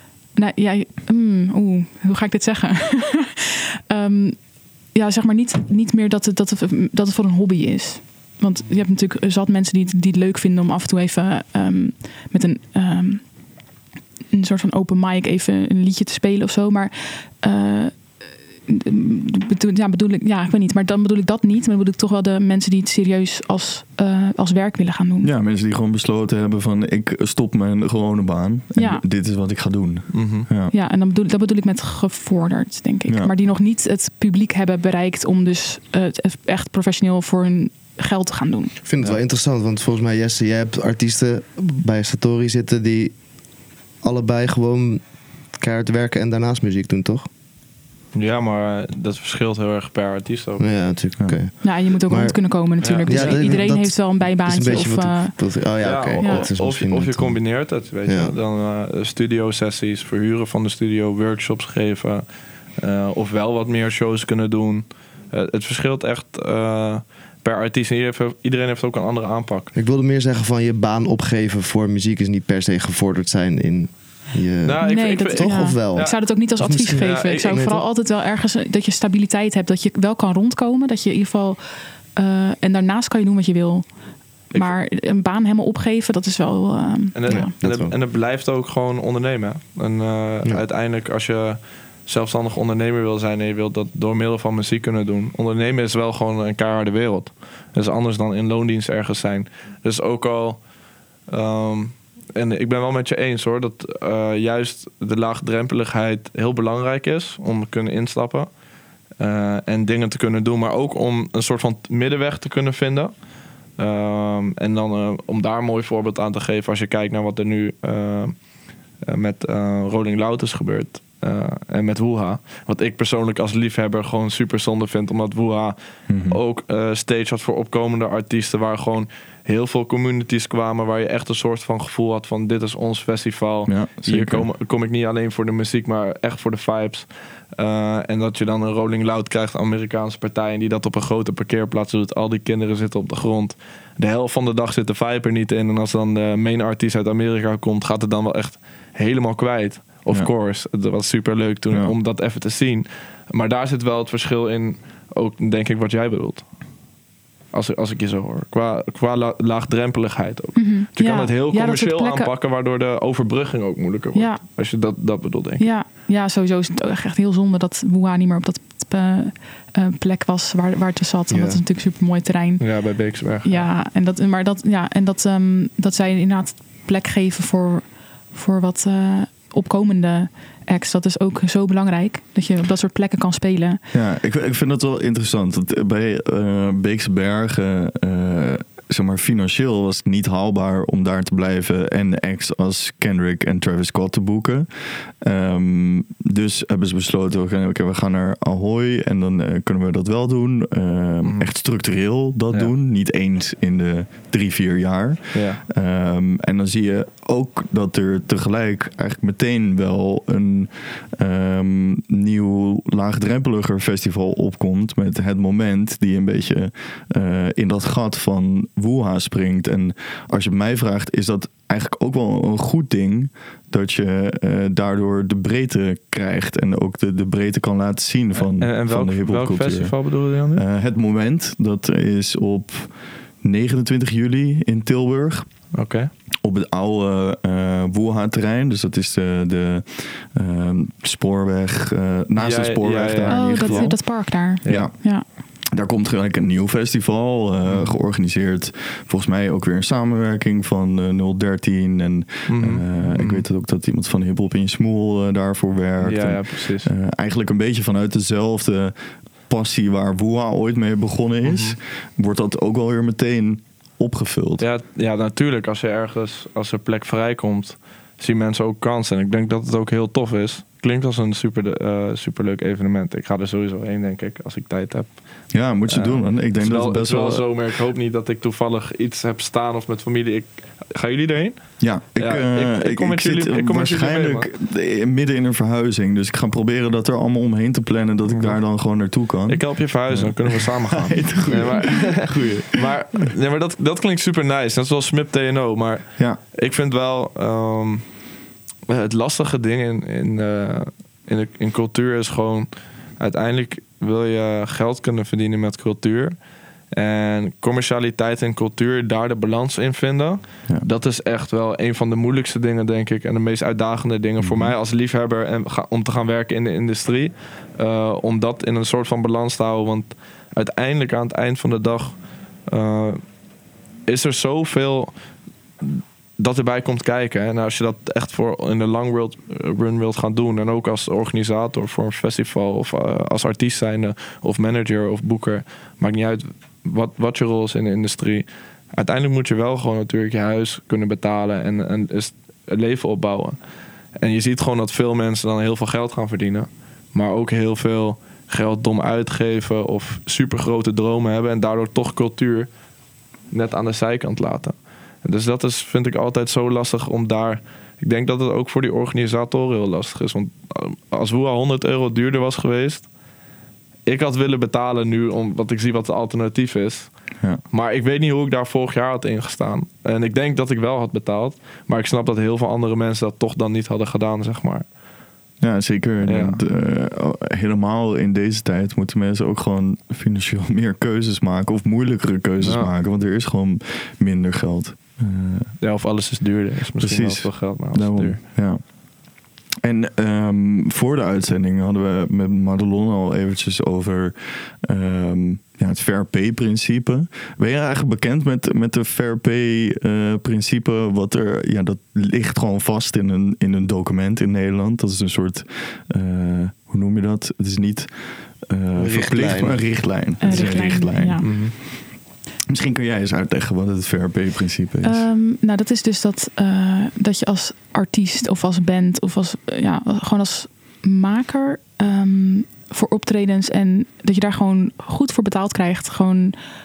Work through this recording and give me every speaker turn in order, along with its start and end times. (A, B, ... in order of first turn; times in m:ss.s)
0:00.3-0:13.3 A
0:14.3-0:25.3 A
0:25.2-0:30.7 B
0:28.7-0:29.0 A
0:30.1-0:30.5 C
0:30.7-0:38.7 A
0:38.8-0:43.4 D
0:44.0-0:47.3 D
0:48.1-0:50.7 C
0:50.6-0:57.4 D
0:51.6-0:55.4 A
0:52.8-0:53.7 C
0:55.8-1:09.7 C
0:56.2-0:56.5 A
0:58.0-0:58.3 D
1:09.7-1:17.8 D
1:14.6-1:17.7 C
1:14.8-1:21.6 A
1:22.2-1:23.9 A
1:24.5-1:27.5 A
1:27.1-1:40.6 C
1:27.3-1:27.9 D
1:41.3-1:48.5 C
1:49.2-1:53.1 C
1:53.8-1:58.4 C
1:59.0-2:36.5 C
2:06.1-2:06.4 B
2:13.7-2:14.5 B
2:37.5-2:45.6 C
2:40.6-2:42.3 A
2:44.1-2:44.4 A
2:45.6-3:03.8 A
2:51.3-2:51.6 D
2:52.6-2:53.7 C
3:03.9-3:55.6 B
3:21.2-3:21.5 C
3:25.3-3:25.6 C
3:48.4-3:50.6 C
3:55.7-3:56.1 C
3:56.4-4:24.6 B
4:02.4-4:04.0 C
4:03.3-4:05.2 A
4:04.6-4:04.9 C
4:07.6-4:08.0 C
4:12.5-4:13.4 C
4:16.0-4:16.9 C
4:21.4-4:21.8 C
4:24.6-4:44.5 C
4:35.5-4:37.4 B
4:41.8-4:52.8 B
4:48.3-4:58.1 C
4:58.9-5:06.3 C
5:06.9-5:23.2 C
5:14.4-5:14.7 B
5:24.1-5:25.1 C
5:25.8-5:43.6 C
5:44.2-5:52.7 C
5:53.5-6:03.1 C
6:04.0-6:14.8 C
6:15.6-6:25.8 B
6:16.2-6:16.6 C
6:22.6-6:22.9 C
6:25.8-6:28.4 C
6:27.0-6:28.8 B
6:29.8-6:52.0 B
6:49.0-6:50.7 D
6:50.4-6:51.5 A
6:51.4-6:51.7 C
6:52.7-6:55.2 B
6:55.0-7:06.5 A